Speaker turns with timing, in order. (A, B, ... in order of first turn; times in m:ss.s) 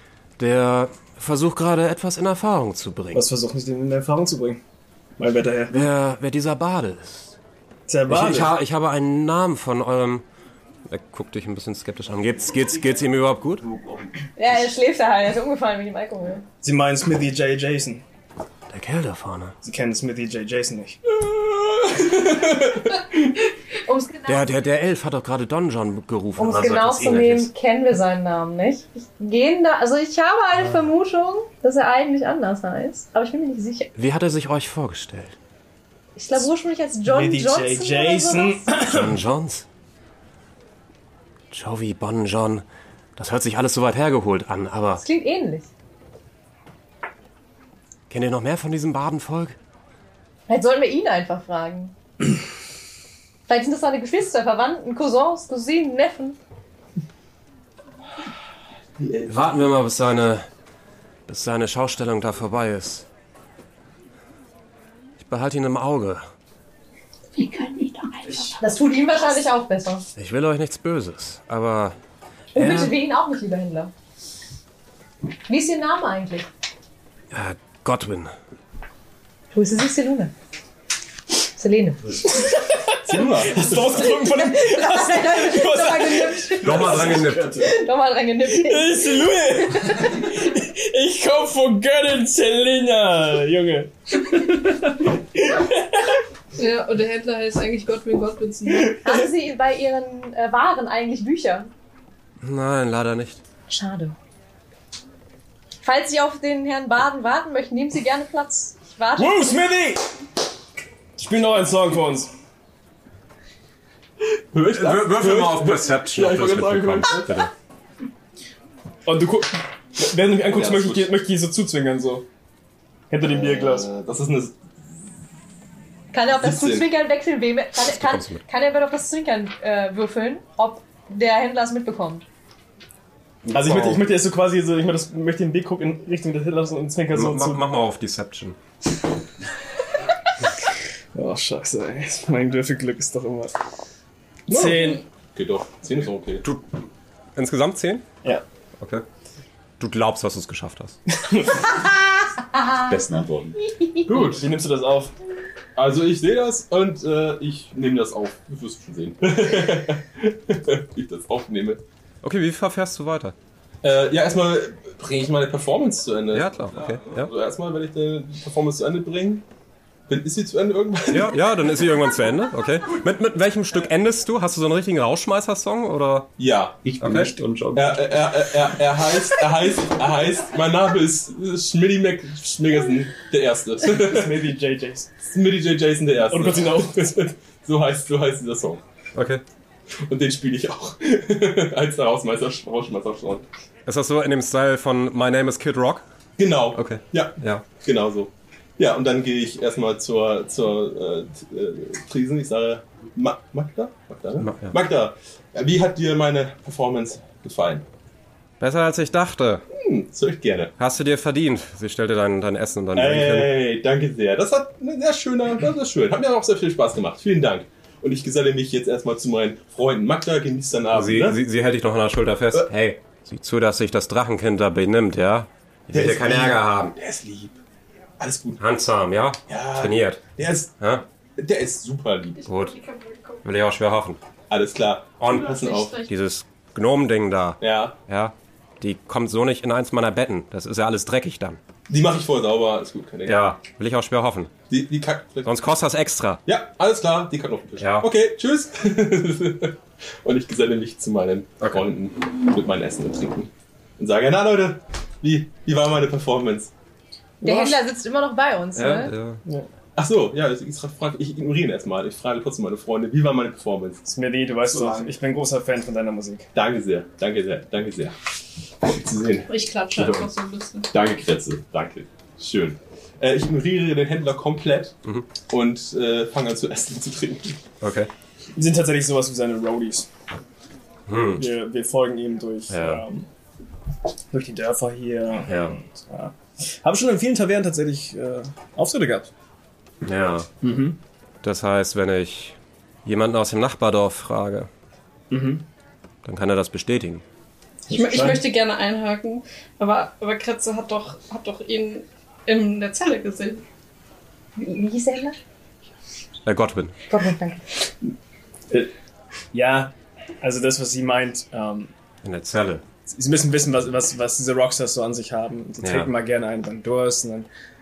0:00.4-0:03.2 A
0:03.1-0:04.6 B
0:05.2-0:05.7 B
0:05.7-0:07.3 A
0:07.9-0:08.5 B
0:08.1-0:10.2 A
0:10.9-0:13.7 A
0:13.8-0:14.0 C
0:14.4-0:16.4 D
0:16.6-0:18.0 B
0:18.7-0:19.6 A
0:19.6-0:21.0 B
0:21.3-0:23.0 E
0:23.9-0:24.5 D
0:24.3-0:27.5 A
0:26.4-0:33.9 D
0:34.0-0:35.4 A
0:36.2-0:38.8 D
0:37.0-0:39.2 B
0:38.8-0:39.6 A
0:41.5-0:42.6 A
0:43.2-0:45.0 A
0:45.0-0:45.7 D
0:48.1-0:49.6 A
0:50.5-0:51.9 D
0:53.5-0:56.4 D
0:59.0-0:59.6 E
0:59.3-1:00.5 A
1:01.3-1:03.1 A
1:05.2-1:06.2 A
1:07.4-1:08.5 F
1:08.6-1:10.1 D
1:10.2-1:12.0 A
1:12.6-1:13.9 D
1:12.6-1:13.0 A
1:15.5-1:16.5 D
1:17.3-1:18.3 A
1:19.5-1:20.3 D
1:21.6-1:22.2 D
1:22.3-1:27.8 B
1:23.1-1:23.8 E
1:24.0-1:30.1 D
1:26.6-1:27.6 A
1:28.4-1:36.2 B
1:36.6-1:38.9 F
1:38.7-1:39.3 B
1:39.0-1:41.7 D
1:42.4-1:43.4 A
1:43.7-1:44.2 D
1:45.8-1:49.6 D
1:49.2-1:50.0 B
1:51.2-1:52.3 B
1:54.5-1:57.4 E
1:54.7-1:57.5 A
1:59.1-2:02.3 B
2:00.4-2:01.1 E
2:03.1-2:03.9 B
2:03.2-2:04.6 E
2:06.1-2:12.2 D
2:06.4-2:06.9 E
2:07.8-2:08.4 A
2:13.4-2:14.2 A
2:13.5-2:17.7 B
2:17.1-2:18.6 A
2:21.2-2:23.5 B
2:24.5-2:25.0 B
2:24.5-2:26.4 E
2:27.4-2:28.0 A
2:28.8-2:29.0 A
2:29.8-2:31.0 A
2:31.1-2:31.8 B
2:32.6-2:32.9 D
2:32.8-2:33.6 C
2:33.6-2:34.4 D
2:34.1-2:35.1 B
2:35.8-2:41.8 E
2:42.2-2:43.4 A
2:43.8-2:49.4 E
2:46.3-2:47.3 A
2:50.1-2:51.5 E
2:51.1-2:56.3 A
2:56.4-2:56.8 E
2:56.8-2:58.6 C
2:57.0-2:57.3 A
2:57.7-3:04.4 E
3:03.8-3:05.1 B
3:05.3-3:08.8 E
3:06.3-3:07.3 B
3:09.2-3:09.4 A
3:10.0-3:13.5 E
3:13.9-3:16.0 A
3:16.4-3:27.9 E
3:16.8-3:17.6 A
3:24.4-3:24.7 A
3:28.6-3:29.6 A
3:29.7-3:30.7 E
3:30.8-3:33.5 A
3:33.0-3:41.4 E
3:40.9-3:47.0 A
3:45.9-3:47.6 E
3:48.2-3:48.6 E
3:48.6-3:50.2 A
3:49.5-3:50.8 E
3:51.4-3:52.4 E
3:52.4-3:53.4 F
3:52.5-3:52.7 A
3:53.4-3:54.2 A
3:54.5-3:55.9 E
3:55.2-4:01.6 A
3:55.3-3:56.1 F
3:57.6-3:58.0 E
4:01.9-4:03.4 E
4:03.3-4:04.5 A
4:04.7-4:05.5 E
4:05.5-4:06.4 A
4:06.5-4:16.7 E
4:07.8-4:08.1 A
4:17.4-4:19.1 D
4:17.4-4:17.8 B
4:18.8-4:19.4 A
4:20.0-4:24.0 E
4:24.1-4:26.5 B
4:24.7-4:25.1 E
4:26.6-4:28.1 E
4:28.8-4:30.3 E
4:29.5-4:30.9 F
4:30.9-4:35.0 E
4:35.5-4:37.6 E
4:37.8-4:38.1 A
4:38.6-4:40.1 B
4:41.1-4:41.4 A
4:41.4-4:43.3 B
4:42.7-4:43.0 A
4:44.3-4:49.3 B
4:45.5-4:45.8 A
4:50.0-4:50.5 A
4:50.6-4:51.0 B
4:51.4-4:54.7 A
4:55.3-4:55.6 B
4:56.2-4:57.2 A
4:57.9-4:58.4 B
4:57.9-5:03.6 F
5:04.6-5:05.4 D
5:06.4-5:07.0 A
5:07.1-5:07.6 D
5:09.5-5:11.9 B
5:12.2-5:12.8 A
5:13.1-5:17.5 B
5:15.8-5:16.1 A